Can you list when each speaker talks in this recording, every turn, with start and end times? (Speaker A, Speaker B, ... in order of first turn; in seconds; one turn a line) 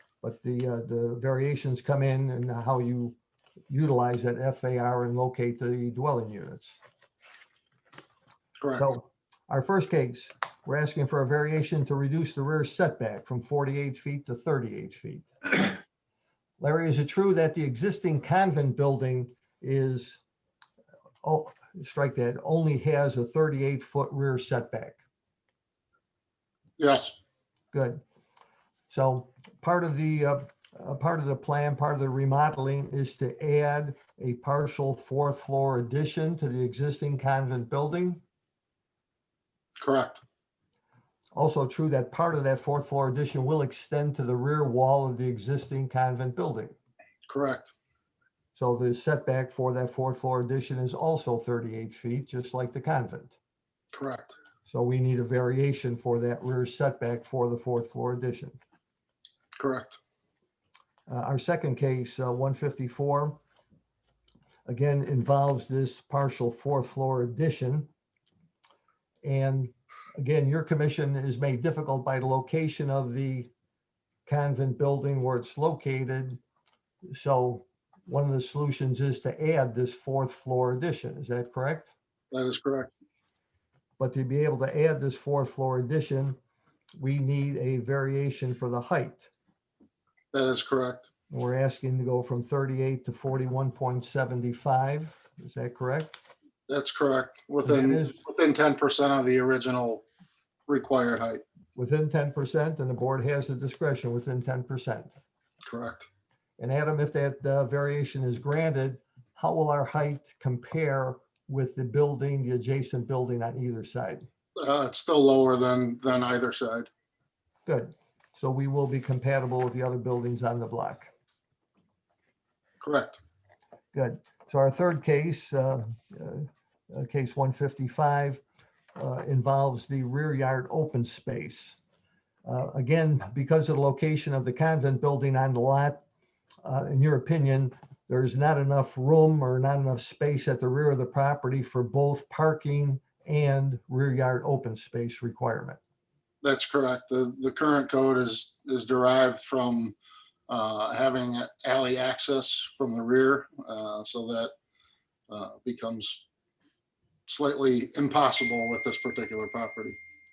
Speaker A: 0.2-3.2
Speaker A: 3.7-6.8
Speaker B: 8.6-8.9
Speaker A: 8.8-15.3
Speaker A: 16.6-20.2
Speaker A: 21.2-25.0
Speaker B: 26.8-27.2
Speaker A: 27.7-28.0
Speaker A: 28.9-38.2
Speaker B: 39.8-40.2
Speaker A: 41.3-46.8
Speaker B: 47.3-47.7
Speaker A: 48.5-53.4
Speaker B: 53.9-54.4
Speaker A: 54.7-58.6
Speaker B: 59.6-60.0
Speaker A: 61.1-63.4
Speaker A: 64.7-67.9
Speaker A: 69.2-73.5
Speaker A: 74.3-76.4
Speaker A: 77.1-81.9
Speaker B: 82.3-83.0
Speaker A: 84.0-86.4
Speaker A: 87.0-89.3
Speaker B: 90.3-91.1
Speaker A: 91.3-96.2
Speaker B: 96.7-100.0
Speaker A: 97.7-98.2
Speaker B: 100.7-101.4
Speaker A: 101.8-105.1
Speaker B: 105.7-106.1
Speaker A: 106.6-114.3
Speaker B: 114.6-116.9
Speaker A: 117.7-121.1
Speaker B: 122.8-123.2
Speaker A: 123.9-128.4
Speaker A: 129.0-131.8
Speaker A: 132.5-136.0
Speaker A: 136.6-145.8
Speaker B: 146.4-150.0
Speaker B: 150.5-154.5
Speaker B: 155.3-156.2
Speaker B: 157.3-160.0